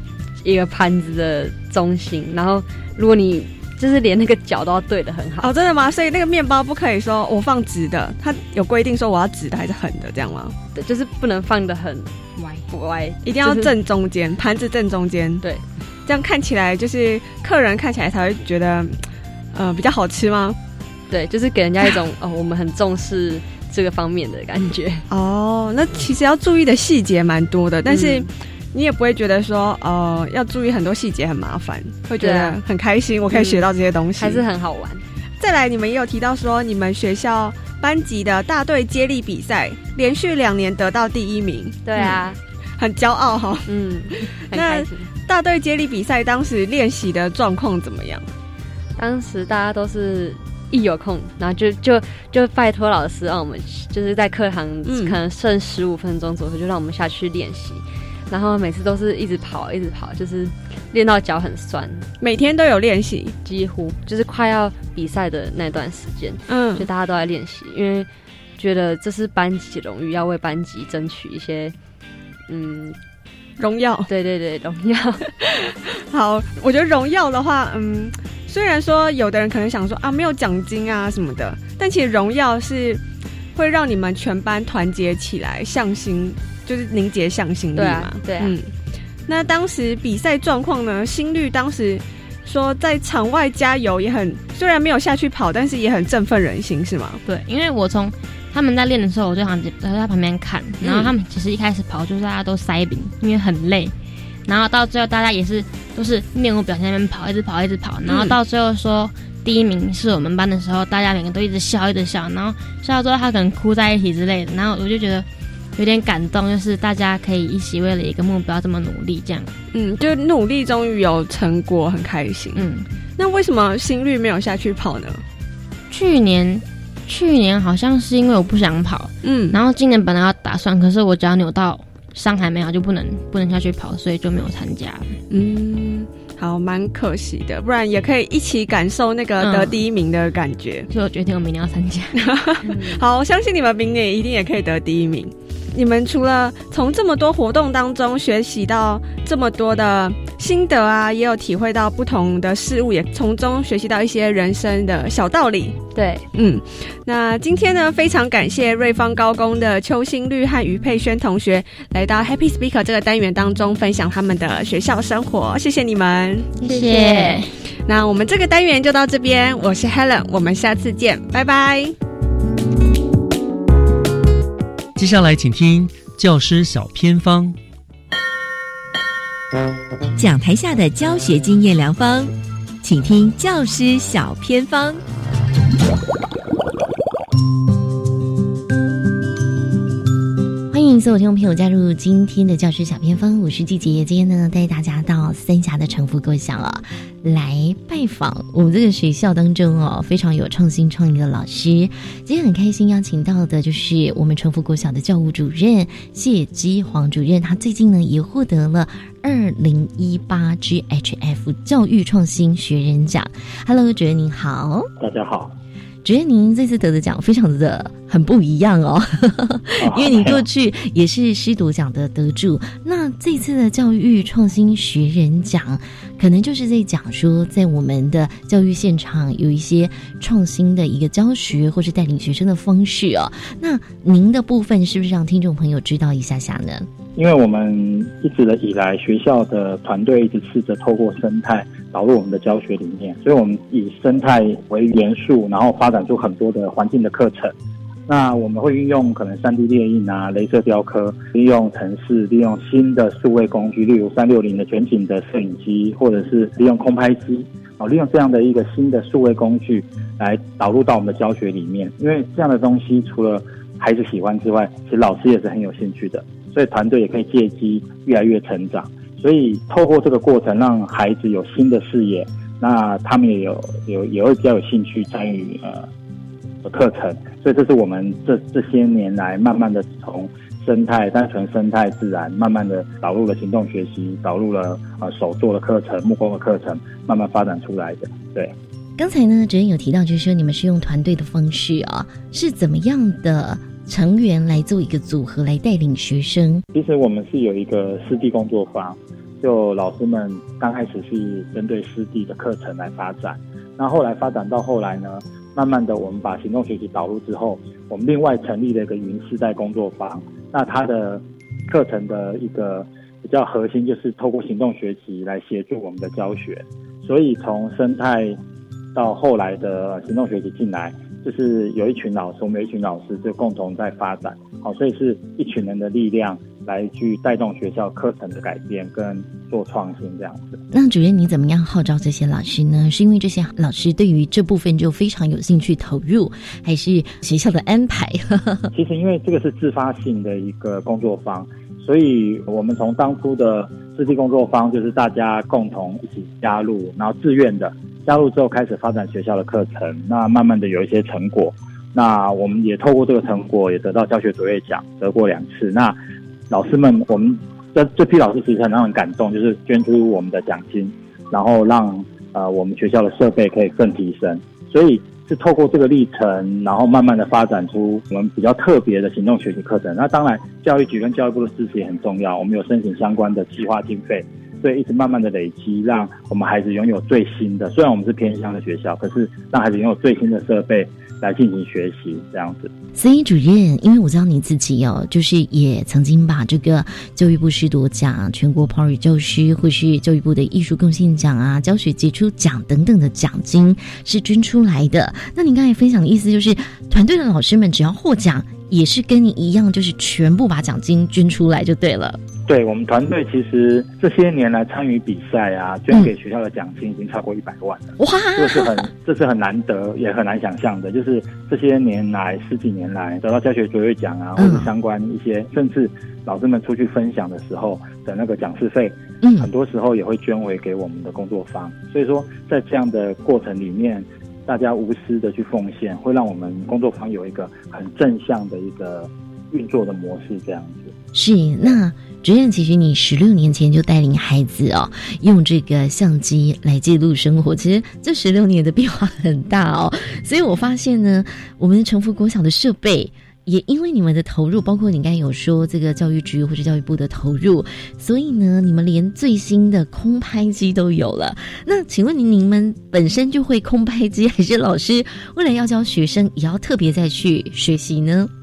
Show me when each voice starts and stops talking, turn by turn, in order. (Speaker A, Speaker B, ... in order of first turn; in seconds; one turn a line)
Speaker A: 0.4-5.5
Speaker B: 5.4-10.6
Speaker A: 10.7-13.7
Speaker B: 13.2-15.4
Speaker B: 16.1-19.0
Speaker B: 19.5-20.6
Speaker A: 21.1-25.1
Speaker B: 25.1-34.4
Speaker A: 27.9-28.3
Speaker A: 32.2-32.6
Speaker A: 33.3-33.7
Speaker A: 34.2-35.0
Speaker B: 35.4-42.2
Speaker A: 41.9-42.4
Speaker B: 42.8-43.7
Speaker A: 43.7-45.1
Speaker B: 44.5-48.2
Speaker A: 49.0-62.1
Speaker B: 54.9-55.2
Speaker B: 62.2-63.4
Speaker A: 63.5-71.8
Speaker B: 66.5-66.9
Speaker A: 72.5-73.0
Speaker B: 73.6-74.1
Speaker A: 74.1-75.3
Speaker B: 75.4-83.0
Speaker B: 83.5-88.7
Speaker A: 87.8-88.6
Speaker B: 89.3-97.2
Speaker C: 97.2-103.9
Speaker B: 100.8-101.1
Speaker C: 104.5-115.3
Speaker B: 108.1-108.4
Speaker C: 115.8-119.5
Speaker B: 119.7-122.6
Speaker C: 122.5-122.9
Speaker B: 123.2-125.2
Speaker C: 125.9-135.1
Speaker B: 129.2-129.6
Speaker B: 135.3-140.9
Speaker C: 139.4-139.8
Speaker C: 140.9-142.2
Speaker B: 142.2-155.8
Speaker A: 155.9-156.2
Speaker B: 156.3-166.6
Speaker C: 166.6-167.5
Speaker A: 166.7-167.4
Speaker B: 167.9-171.9
Speaker D: 175.0-177.6
Speaker E: 180.2-185.0
Speaker F: 190.7-214.9
Speaker G: 215.0-215.5
Speaker F: 216.0-236.9
Speaker G: 219.8-220.4
Speaker G: 237.2-247.5
Speaker G: 248.1-275.9
Speaker G: 276.6-288.5
Speaker F: 289.0-296.6
Speaker G: 296.7-318.4
Speaker G: 318.9-330.6
Speaker F: 330.7-338.7
Speaker G: 338.7-356.0
Speaker G: 356.5-382.7
Speaker F: 382.9-402.2
Speaker G: 402.5-430.9
Speaker F: 408.0-408.9
Speaker F: 414.4-414.7
Speaker F: 419.2-419.5
Speaker F: 431.1-458.3